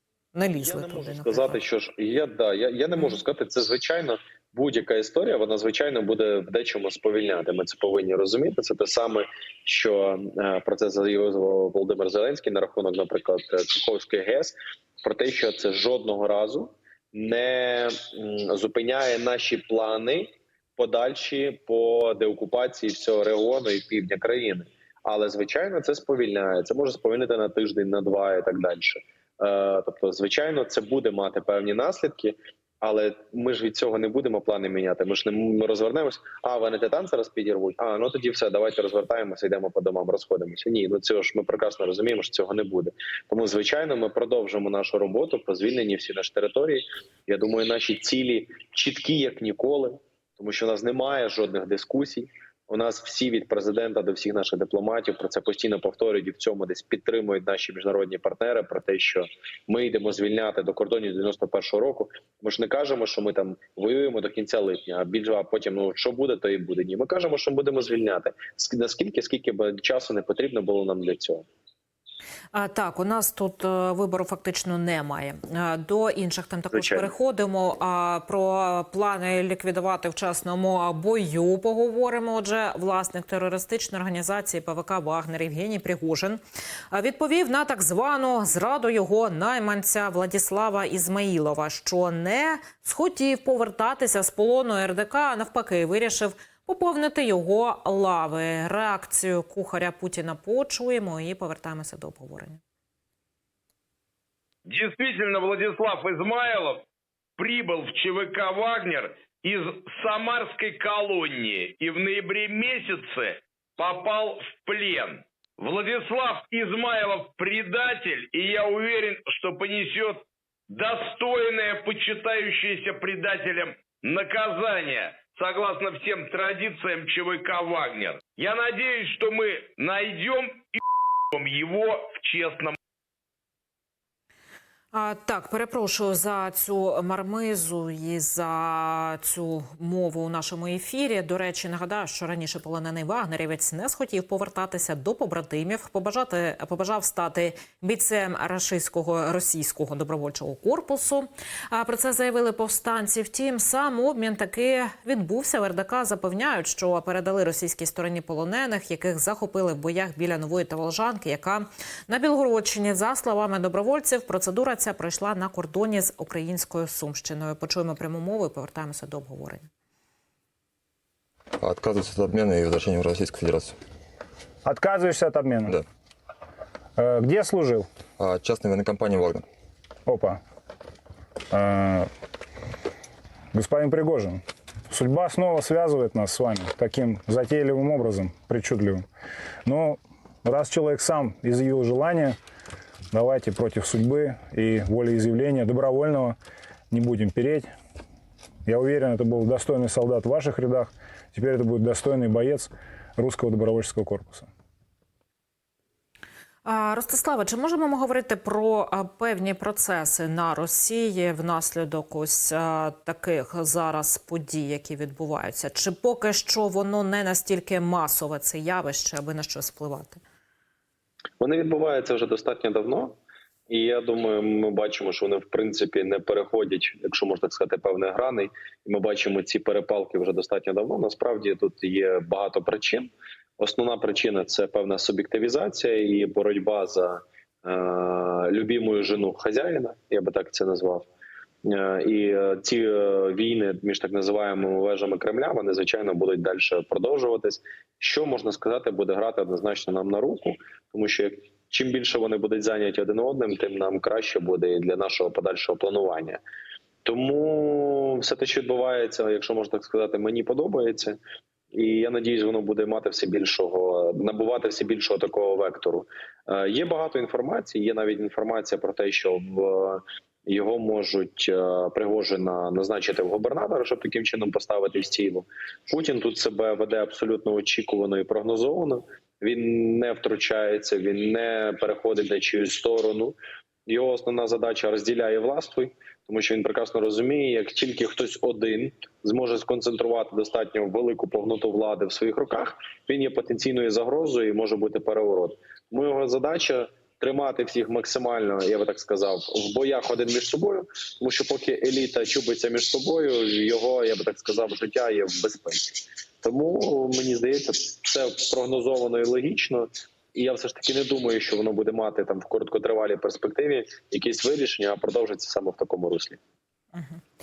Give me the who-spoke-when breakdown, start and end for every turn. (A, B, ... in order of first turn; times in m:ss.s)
0:00.3-0:01.6 A
0:00.6-1:11.4 B
1:12.5-1:26.4 A
1:16.7-1:17.1 B
1:26.9-1:42.6 A
1:44.7-1:46.8 C
1:47.4-2:10.8 C
2:11.3-2:12.8 C
2:14.9-2:49.7 A
2:51.6-2:53.8 D
2:54.6-2:55.8 E
2:57.0-2:57.9 E
2:58.2-2:59.4 D
3:00.0-3:00.4 E
3:01.5-3:02.1 E
3:03.5-3:09.1 E
3:09.6-3:12.4 E
3:13.1-3:16.4 E
3:16.9-3:17.7 E
3:18.6-3:24.5 E
3:26.6-3:40.2 A
3:41.4-3:43.2 B
3:43.7-4:01.1 B
4:01.6-4:16.4 B
4:17.0-4:21.2 B
4:21.7-5:16.4 B
5:16.9-5:17.2 A